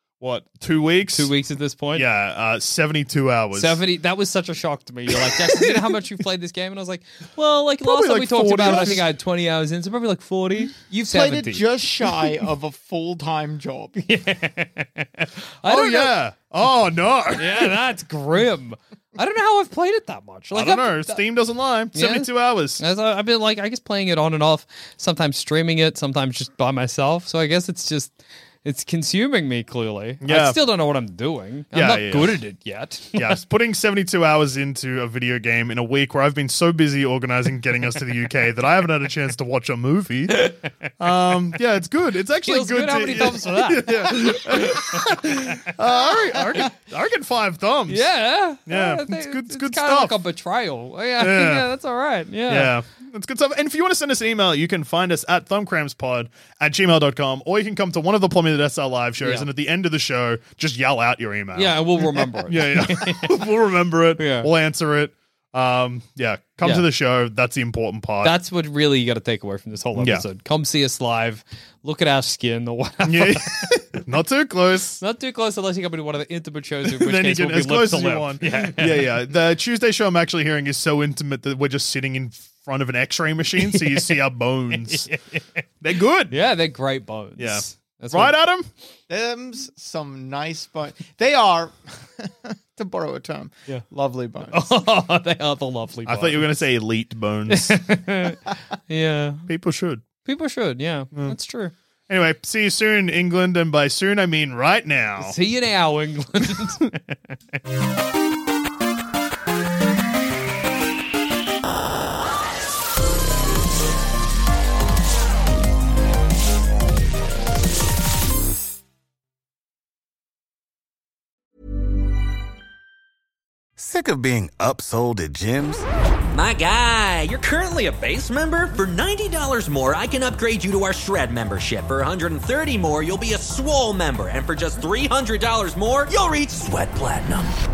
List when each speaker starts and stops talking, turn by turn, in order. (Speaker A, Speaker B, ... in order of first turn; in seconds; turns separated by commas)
Speaker A: 0.2-1.3, Speaker B: 1.1-2.0, Speaker A: 1.9-3.8, Speaker B: 3.5-11.6, Speaker A: 5.3-5.7, Speaker A: 7.8-9.1, Speaker C: 10.9-14.0, Speaker B: 14.0-16.1, Speaker A: 15.7-17.8, Speaker B: 17.4-21.2, Speaker A: 20.5-22.8, Speaker B: 21.9-33.4, Speaker A: 30.2-30.6, Speaker A: 31.7-32.4, Speaker A: 33.1-48.1, Speaker B: 40.3-40.7, Speaker B: 42.4-45.7, Speaker B: 47.9-52.7, Speaker A: 48.7-50.2, Speaker A: 51.2-51.7, Speaker A: 52.5-68.3, Speaker B: 59.2-59.5, Speaker B: 61.5-63.4, Speaker B: 64.2-64.5, Speaker B: 68.2-73.8, Speaker A: 70.0-70.2, Speaker A: 73.0-75.0, Speaker B: 75.0-79.1, Speaker A: 76.8-85.1, Speaker B: 83.7-84.2, Speaker B: 84.7-85.6, Speaker A: 85.8-86.4, Speaker B: 86.3-88.4, Speaker A: 87.4-88.7, Speaker C: 89.1-94.7, Speaker B: 94.5-96.5, Speaker A: 96.1-97.9, Speaker B: 97.5-99.5, Speaker A: 99.5-100.0, Speaker B: 100.2-101.7, Speaker A: 102.1-105.4, Speaker B: 105.2-107.3, Speaker D: 123.8-125.8, Speaker E: 126.3-137.5